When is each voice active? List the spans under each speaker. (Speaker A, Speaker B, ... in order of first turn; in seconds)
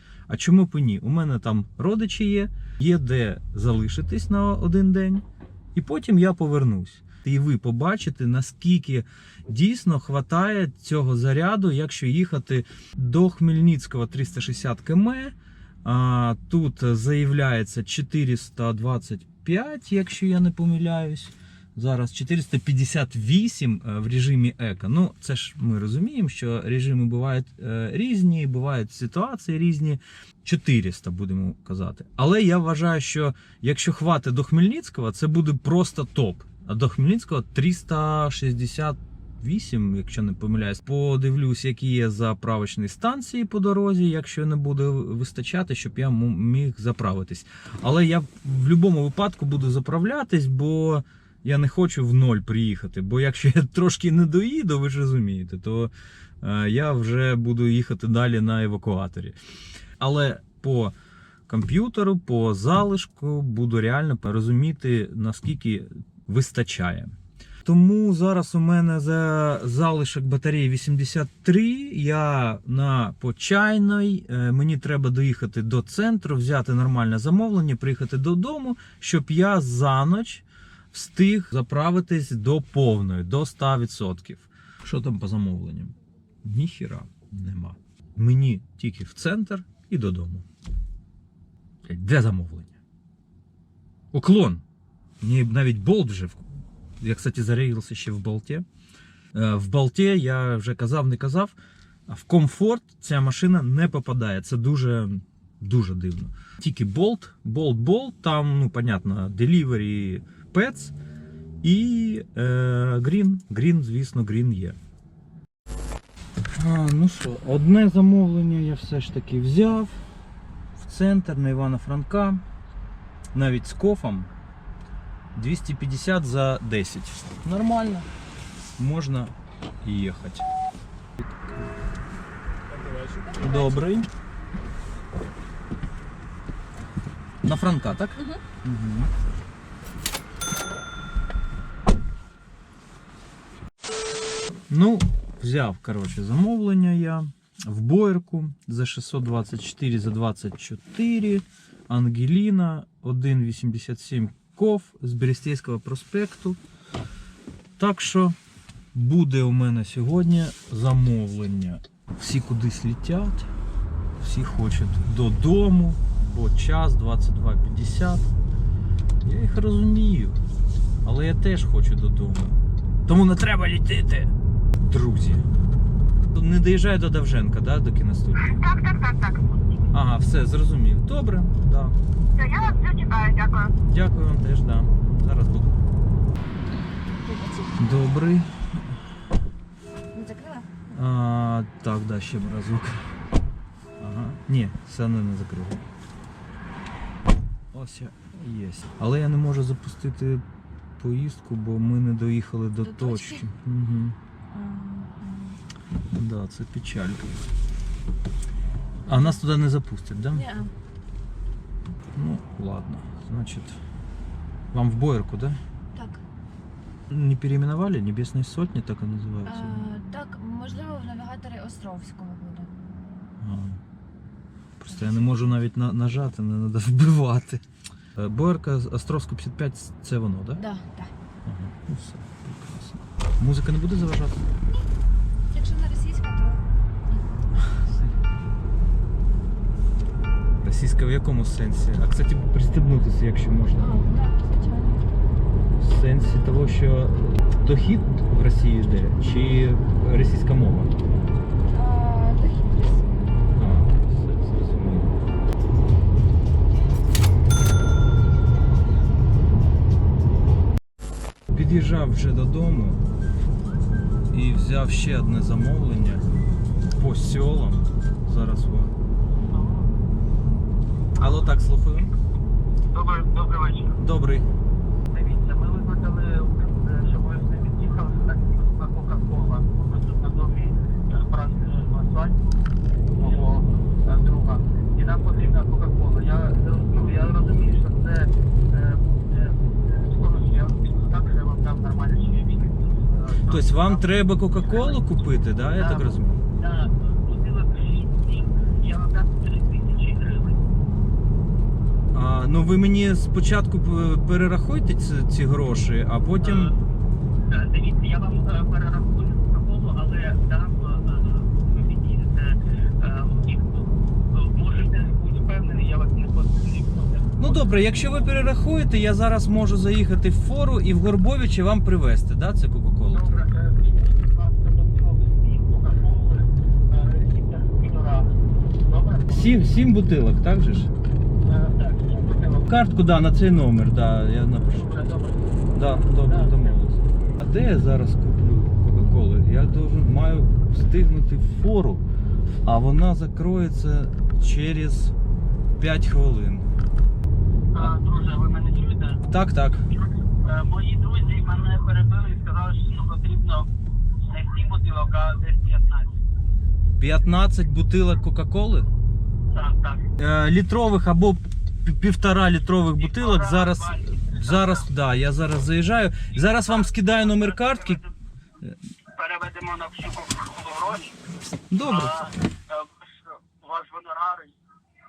Speaker A: 0.3-59.4, 60.0-61.0, 61.5-67.1, 67.7-90.5, 91.9-92.8, 94.1-94.6, 95.2-96.5, 97.0-98.7, 99.3-101.5, 102.1-110.9, 111.6-114.8, 116.5-120.0, 120.8-122.4, 123.3-124.3, 125.3-128.1, 128.8-130.4, 131.2-131.7, 133.4-134.1, 137.4-139.1, 144.7-156.6, 157.8-158.4, 158.9-163.5, 164.2-168.3, 169.2-170.4, 171.0-175.5, 176.3-178.6, 179.9-182.0, 183.9-185.8, 187.8-188.8, 190.9-193.0, 194.0-195.8, 197.7-200.4, 201.0-204.2, 206.2-207.4, 209.1-210.4, 212.2-213.8, 214.7-215.6, 217.1-219.9, 223.4-223.8, 224.8-227.6, 228.2-230.6, 231.4-234.4, 237.6-237.8, 240.6-244.0, 245.8-250.9, 253.6-255.2, 261.5-263.0, 264.3-266.3, 266.9-268.9, 271.2-272.1, 274.0-274.5, 293.5-296.4, 302.1-306.7, 317.4-323.5, 329.3-330.9, 332.6-334.9, 335.7-342.1, 342.6-345.1, 345.8-346.7, 349.3-349.8, 357.0-358.9, 360.2-368.0, 371.7-372.2
Speaker B: 132.9-133.9, 187.1-187.8, 190.1-190.7, 202.8-203.4, 204.5-205.6, 209.1-209.4, 210.3-210.7, 215.9-216.2, 219.5-222.7, 224.9-225.6, 230.6-231.1, 235.5-238.1, 243.8-245.1, 251.7-253.3
Speaker C: 178.4-179.7, 182.3-183.7
Speaker D: 269.5-269.9, 272.9-273.9, 275.1-282.4, 283.1-295.0, 295.7-300.6, 306.4-306.8, 307.4-317.8, 323.1-329.7, 331.4-332.7, 334.6-335.6, 336.1-336.8, 347.7-349.2, 350.4-353.7, 354.3-356.1, 359.5-360.1, 363.0-364.9, 366.5-368.1, 369.1-371.2, 371.8-374.6